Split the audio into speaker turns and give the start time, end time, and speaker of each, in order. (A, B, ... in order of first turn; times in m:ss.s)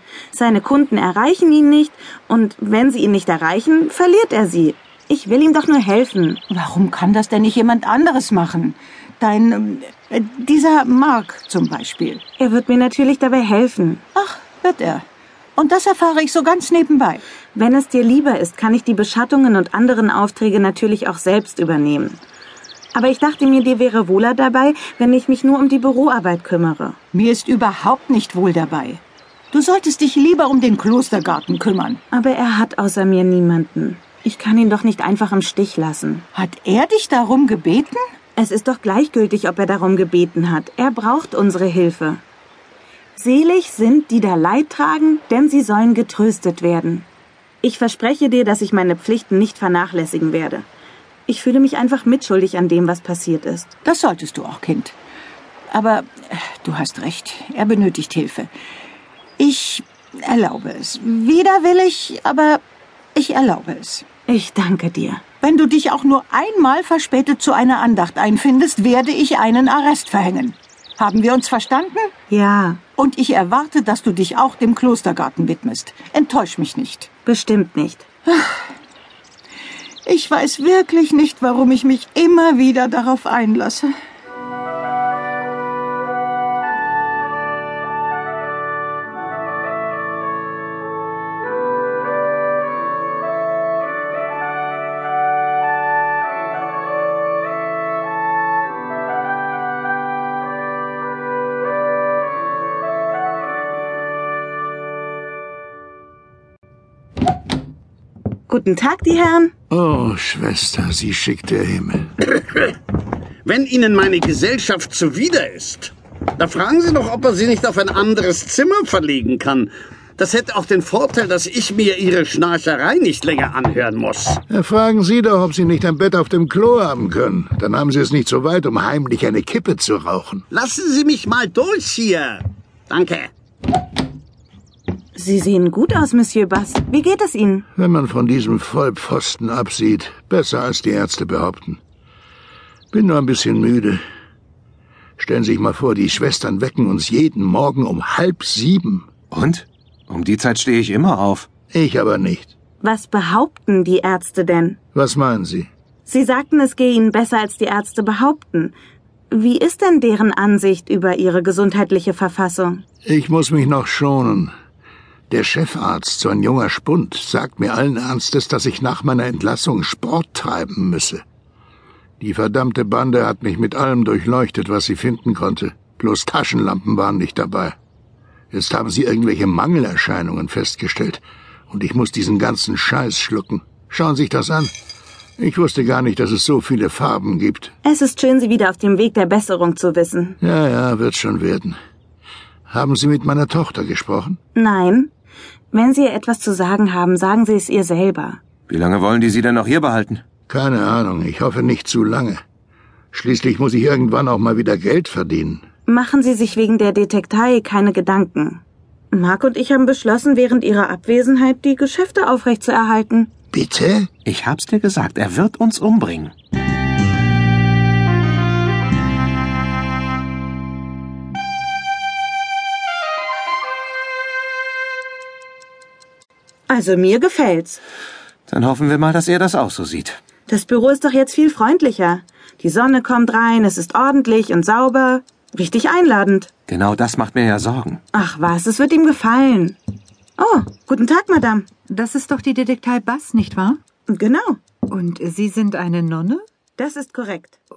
0:00.3-0:06.4 A
0:06.5-0:12.2 B
0:12.4-0:14.0 A
0:14.1-0:15.0 B
0:15.6-0:17.2 B
0:17.5-0:22.2 A
0:22.9-0:27.0 A
0:27.1-0:32.0 B
0:32.1-0:36.3 A
0:36.3-0:38.0 B
0:38.4-0:42.2 A
0:43.2-0:47.1 A
0:47.6-0:50.7 A
0:51.3-0:53.7 A
0:53.8-0:54.9 B
0:55.7-0:58.5 B
0:59.4-1:02.6 B
1:03.1-1:04.0 B
1:04.3-1:05.2 A
1:05.4-1:12.1 B
1:12.3-1:12.8 A
1:13.0-1:17.1 B
1:17.2-1:18.0 A
1:20.0-1:23.9 B
1:48.5-1:49.5 A
1:49.7-1:52.2 C
1:53.4-2:04.4 D
2:04.5-2:10.4 C
2:10.5-2:13.3 D
2:15.1-2:17.6 A
2:17.7-2:21.8 C
2:22.9-2:24.0 C
2:25.2-2:29.1 C
2:29.3-2:31.5 E
2:31.7-2:32.5 C
2:32.8-2:34.8 A
2:34.9-2:35.7 C
2:36.0-2:38.8 A
2:39.3-2:42.8 A
2:43.0-2:44.5 C
2:45.3-2:51.2 C
2:52.2-2:57.7 C
2:58.5-3:04.7 C
3:05.4-3:07.7 C
3:07.8-3:10.4 A
3:10.4-3:11.8 C
3:12.7-3:14.4 C
3:14.5-3:15.1 A
3:15.7-3:18.4 A
3:18.7-3:20.2 E
3:20.5-3:22.4 C
3:23.1-3:25.6 C
3:25.9-3:33.3 A
3:33.5-3:34.1 C
3:34.2-3:36.3 E
3:46.7-3:47.8 A
3:48.5-3:50.2 E
3:50.5-3:56.5 A
3:56.7-3:58.0 E
3:58.1-3:59.8 A
4:00.4-4:01.7 A
4:01.9-4:03.8 F
4:04.1-4:04.6 A
4:04.9-4:06.4 F
4:06.8-4:07.6 A